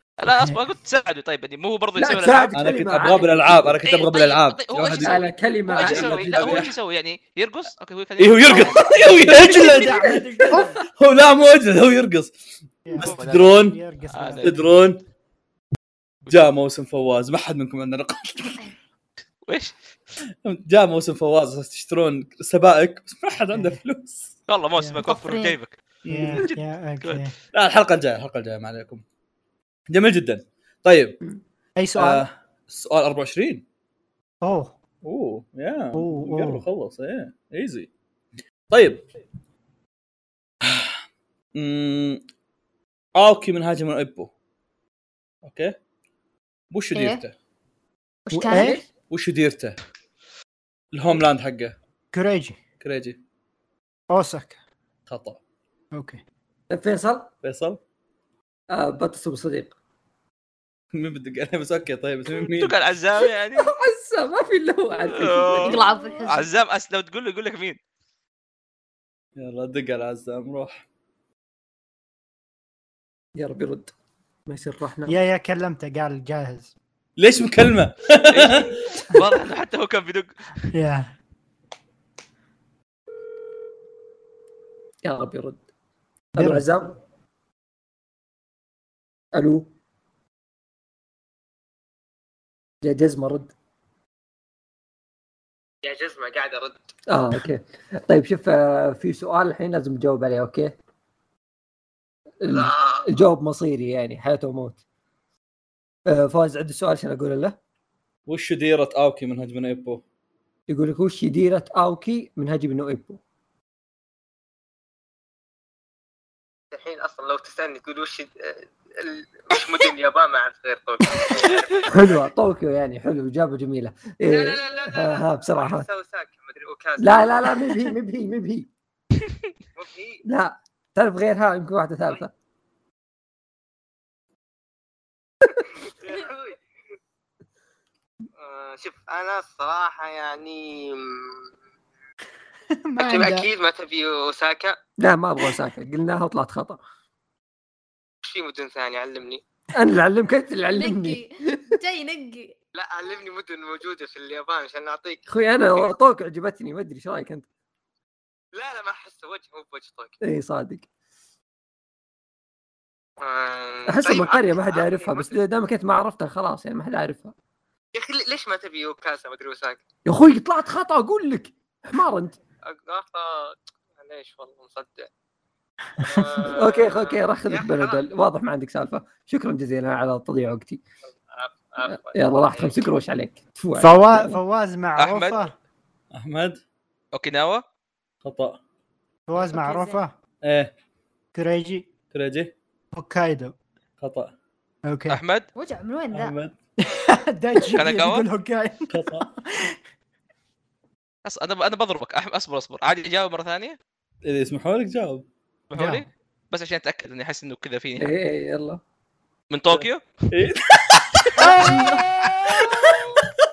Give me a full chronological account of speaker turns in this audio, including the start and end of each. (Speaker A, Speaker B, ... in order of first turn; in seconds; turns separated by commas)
Speaker A: 0.2-2.6, Speaker B: 1.9-3.8, Speaker C: 2.5-5.2, Speaker A: 3.8-8.9, Speaker B: 5.0-6.6, Speaker C: 5.7-6.7, Speaker C: 8.2-10.2, Speaker D: 9.2-10.8, Speaker B: 9.8-10.7, Speaker C: 10.8-12.3, Speaker D: 12.8-14.8, Speaker C: 12.9-13.8, Speaker A: 13.0-13.5, Speaker A: 14.1-14.6, Speaker C: 14.4-15.0, Speaker C: 16.3-18.6, Speaker A: 19.5-19.8, Speaker C: 20.4-24.3, Speaker D: 23.5-23.8, Speaker A: 24.5-25.8, Speaker D: 24.8-25.0, Speaker E: 25.0-25.6, Speaker C: 26.1-26.4, Speaker D: 26.1-27.3, Speaker A: 26.3-27.2, Speaker C: 27.5-29.0, Speaker C: 29.9-31.2, Speaker D: 31.8-32.2, Speaker C: 31.9-33.6, Speaker D: 34.4-34.7, Speaker C: 35.0-37.9, Speaker D: 35.9-36.6, Speaker C: 38.7-39.0, Speaker C: 40.6-41.0, Speaker C: 41.5-42.2, Speaker C: 43.1-44.3, Speaker C: 45.4-45.8, Speaker C: 46.7-47.3, Speaker E: 46.9-47.2, Speaker E: 48.3-48.8, Speaker D: 48.3-48.8, Speaker B: 48.5-48.8, Speaker C: 49.1-49.8, Speaker C: 50.9-51.7, Speaker D: 52.1-52.6, Speaker C: 52.8-53.2, Speaker D: 54.1-54.6, Speaker C: 55.1-55.4, Speaker D: 55.9-56.2, Speaker B: 56.7-57.3, Speaker C: 57.4-57.8, Speaker B: 58.7-59.7, Speaker C: 60.9-62.7, Speaker A: 62.4-63.7, Speaker B: 63.2-66.2, Speaker A: 65.0-67.8, Speaker E: 65.6-66.5, Speaker C: 69.4-70.8, Speaker B: 73.4-73.9, Speaker B: 74.5-75.1, Speaker D: 75.1-76.7, Speaker C: 77.2-79.0, Speaker A: 78.3-80.3, Speaker D: 80.7-81.1, Speaker B: 85.0-85.6, Speaker B: 86.3-87.0, Speaker D: 86.4-86.7, Speaker B: 89.3-89.7, Speaker B: 92.8-93.5, Speaker F: 95.8-96.8, Speaker B: 97.1-100.8, Speaker B: 102.4-104.8, Speaker B: 106.1-107.6, Speaker C: 108.3-110.0, Speaker B: 110.7-113.2, Speaker F: 116.7-121.9, Speaker E: 119.5-119.8, Speaker B: 121.9-125.9, Speaker F: 124.3-127.8, Speaker B: 127.0-128.7, Speaker F: 129.8-130.2, Speaker B: 130.2-132.3, Speaker F: 135.5-136.6, Speaker F: 138.4-141.5, Speaker D: 142.8-143.5, Speaker F: 143.0-144.8, Speaker B: 145.0-146.8, Speaker F: 148.2-149.4, Speaker B: 149.7-151.7, Speaker E: 150.7-152.6, Speaker F: 152.7-155.2, Speaker B: 155.3-157.4, Speaker F: 158.5-160.2, Speaker B: 160.2-160.8, Speaker F: 163.2-165.3, Speaker B: 163.8-167.3, Speaker F: 167.9-169.8, Speaker B: 170.0-172.4, Speaker F: 172.7-175.1, Speaker F: 176.0-178.0, Speaker B: 176.4-180.8, Speaker F: 181.3-182.8, Speaker B: 181.8-184.3, Speaker D: 183.8-185.5, Speaker A: 185.0-185.4, Speaker C: 186.1-186.6, Speaker A: 187.1-187.6, Speaker C: 188.2-188.6, Speaker D: 189.3-190.1, Speaker E: 189.4-190.0, Speaker C: 190.4-190.7, Speaker D: 191.3-191.9, Speaker C: 192.1-192.5, Speaker D: 192.9-193.6, Speaker C: 194.0-194.3, Speaker D: 194.8-195.2, Speaker A: 195.1-195.5, Speaker E: 195.5-196.3, Speaker C: 196.1-196.5, Speaker D: 196.8-199.8, Speaker A: 197.7-198.3, Speaker C: 198.9-199.2, Speaker A: 201.2-203.8, Speaker C: 204.2-205.2, Speaker A: 205.7-208.1, Speaker D: 205.8-206.1, Speaker B: 208.0-208.8, Speaker A: 209.5-210.5, Speaker C: 210.3-211.5, Speaker A: 211.2-212.0, Speaker D: 211.4-212.8, Speaker E: 211.4-212.0, Speaker C: 212.5-213.3